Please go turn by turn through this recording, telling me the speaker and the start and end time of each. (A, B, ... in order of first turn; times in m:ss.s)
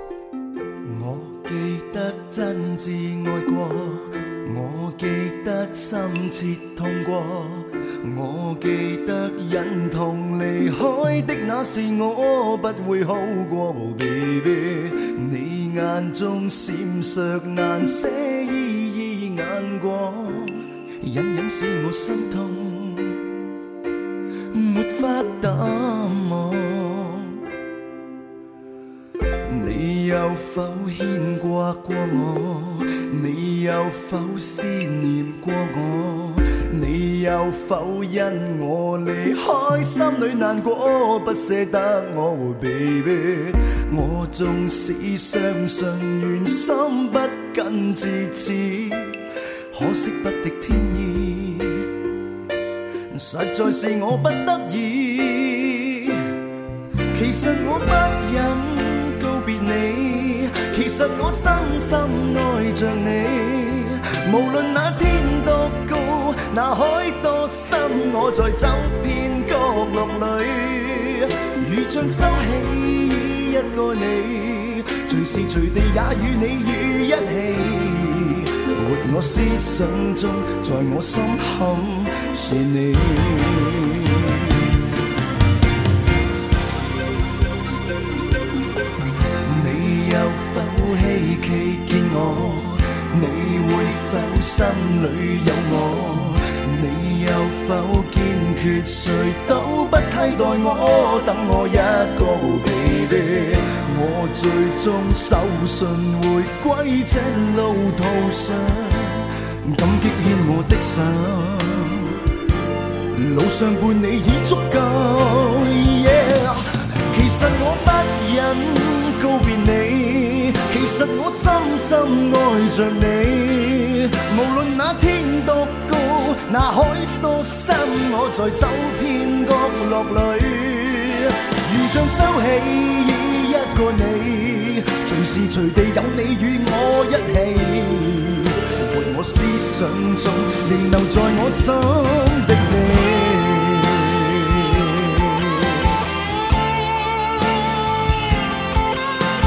0:00.8-0:23.2 A
0:24.5-0:27.4 A
0:29.4-0:51.9 A
0:53.1-0:56.3 A
0:57.1-1:24.6 A
1:29.4-1:52.2 A
1:53.1-2:25.8 A